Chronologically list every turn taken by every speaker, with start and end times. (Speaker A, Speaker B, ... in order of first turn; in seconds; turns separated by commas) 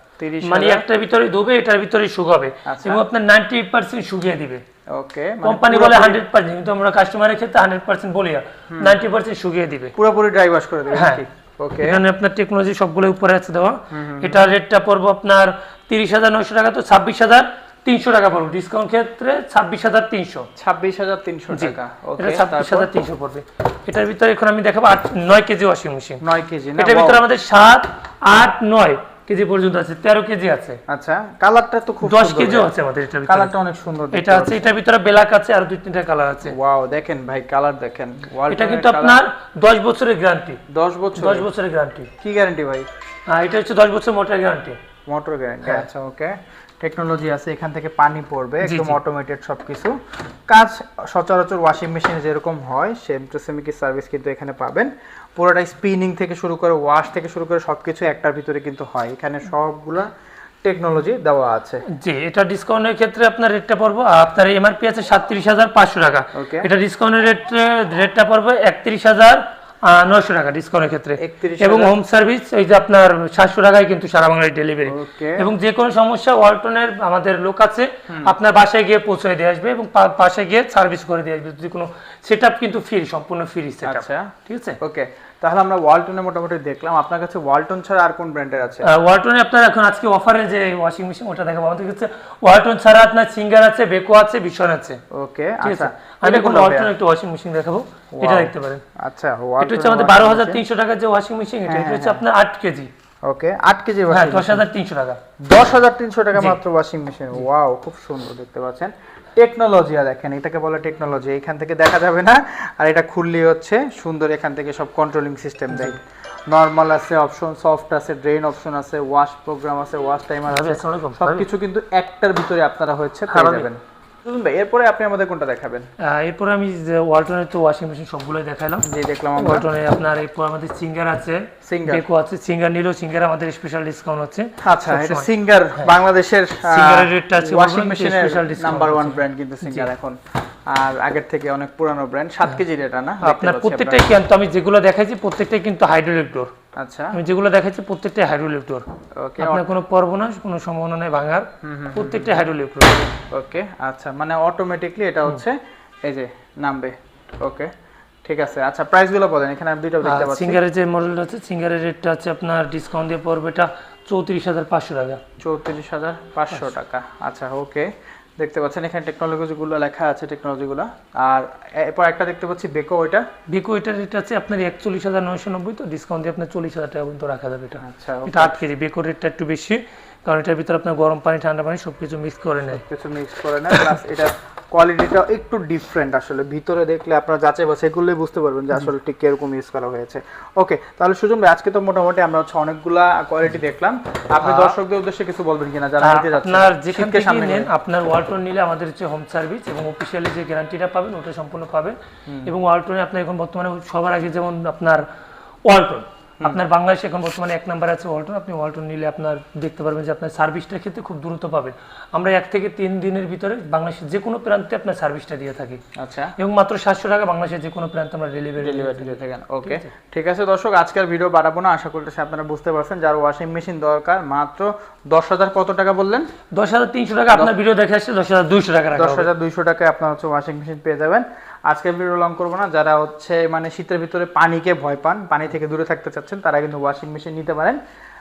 Speaker A: 0.2-0.8, Speaker B: 0.4-4.6, Speaker A: 2.6-3.0, Speaker A: 4.9-6.2, Speaker B: 5.4-9.9, Speaker A: 9.9-12.0, Speaker B: 10.9-11.2, Speaker B: 11.8-20.5, Speaker A: 13.9-14.5, Speaker A: 20.6-22.9, Speaker B: 21.5-26.2, Speaker A: 26.2-27.2, Speaker B: 26.8-30.8, Speaker A: 30.9-32.7, Speaker B: 32.0-33.5, Speaker A: 33.2-34.6, Speaker B: 34.1-36.5, Speaker A: 36.4-39.2, Speaker B: 38.5-40.6, Speaker A: 40.7-41.5, Speaker B: 41.1-42.1, Speaker A: 42.2-42.9, Speaker B: 43.3-44.8, Speaker A: 45.1-60.1, Speaker B: 48.6-49.0, Speaker A: 60.6-61.8, Speaker B: 61.9-84.8, Speaker A: 66.3-66.7, Speaker A: 71.2-71.9, Speaker A: 74.8-75.5, Speaker A: 78.1-78.3, Speaker A: 83.8-88.9, Speaker B: 88.8-95.0, Speaker A: 95.1-96.9, Speaker B: 95.6-98.8, Speaker A: 98.1-100.6, Speaker B: 99.6-102.9, Speaker A: 101.6-102.2, Speaker A: 103.3-104.6, Speaker B: 104.1-105.2, Speaker A: 105.4-125.8, Speaker B: 106.3-106.6, Speaker B: 115.7-116.0, Speaker B: 120.5-121.5, Speaker B: 123.3-123.7, Speaker B: 126.0-135.9, Speaker A: 128.8-129.7, Speaker A: 131.6-132.0, Speaker A: 134.6-144.0, Speaker B: 136.6-139.9, Speaker B: 143.2-146.5, Speaker A: 146.8-147.2, Speaker B: 147.1-148.8, Speaker A: 149.2-149.7, Speaker B: 149.4-153.1, Speaker A: 151.6-152.3, Speaker A: 153.3-157.7, Speaker A: 158.2-160.6, Speaker B: 160.0-165.2, Speaker A: 165.4-173.2, Speaker B: 173.5-182.8, Speaker A: 177.8-178.6, Speaker A: 182.7-197.7, Speaker B: 194.4-194.8, Speaker B: 196.0-205.1, Speaker A: 202.3-202.5, Speaker B: 205.7-215.8, Speaker A: 216.0-216.3, Speaker B: 216.4-219.9, Speaker A: 218.6-226.3, Speaker B: 226.5-229.3, Speaker A: 228.9-237.8